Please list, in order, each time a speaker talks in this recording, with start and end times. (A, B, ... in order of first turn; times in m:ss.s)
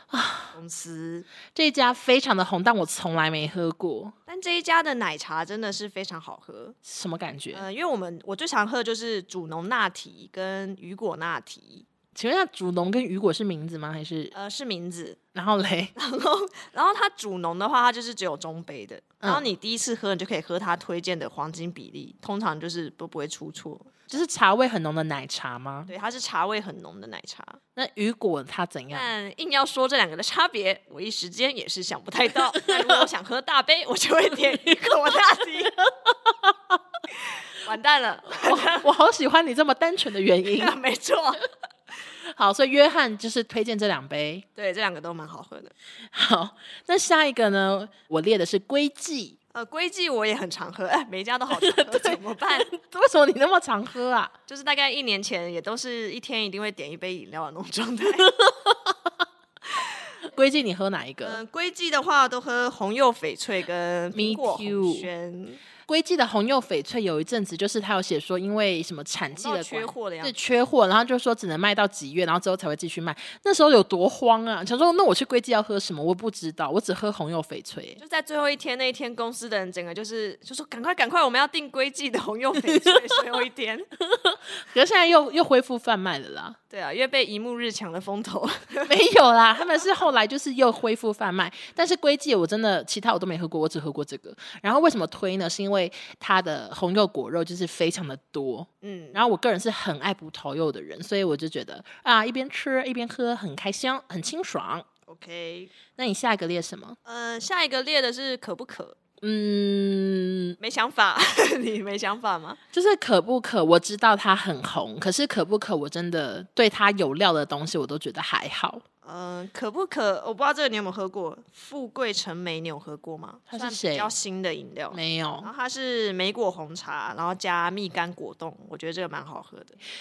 0:00.1-0:00.5 A
0:00.5-0:01.3 B
0:01.5-0:04.2 A
0:04.3-0:06.8 B
0:06.8-0:07.6 A
0:07.5-0:11.9 B
0:12.2-0:14.3 A
0:14.3-0:15.2 B
0:15.3-0:15.9 A
0:16.0-0:23.9 B
0:19.2-0:19.5 A
0:24.1-0:25.9 A
0:25.9-0:27.6 B
0:27.8-0:29.1 A
0:28.9-0:35.8 B
0:32.6-0:33.0 A
0:36.2-0:36.5 A
0:37.1-0:38.9 B
0:38.3-0:40.7 A
0:40.5-0:41.4 B
0:42.3-0:44.5 A
0:44.6-0:45.7 B
0:46.1-0:49.4 A
0:49.5-0:52.7 B
0:51.5-0:54.3 A
0:54.5-0:58.3 B
0:58.2-0:59.0 A
1:00.2-1:01.4 A
1:01.2-1:05.6 B
1:04.1-1:05.1 A
1:05.9-1:18.0 A
1:09.3-1:10.4 B
1:18.0-1:23.9 B
1:22.7-1:23.2 A
1:24.0-1:26.6 A
1:26.7-1:28.9 B
1:28.8-1:44.9 A
1:38.8-1:39.2 B
1:45.1-1:45.7 B
1:46.0-1:47.0 A
1:47.0-1:49.0 B
1:49.2-1:50.6 A
1:50.6-1:52.6 B
1:52.7-1:58.8 A
1:59.0-2:09.8 B
2:03.5-2:04.1 A
2:04.9-2:05.5 A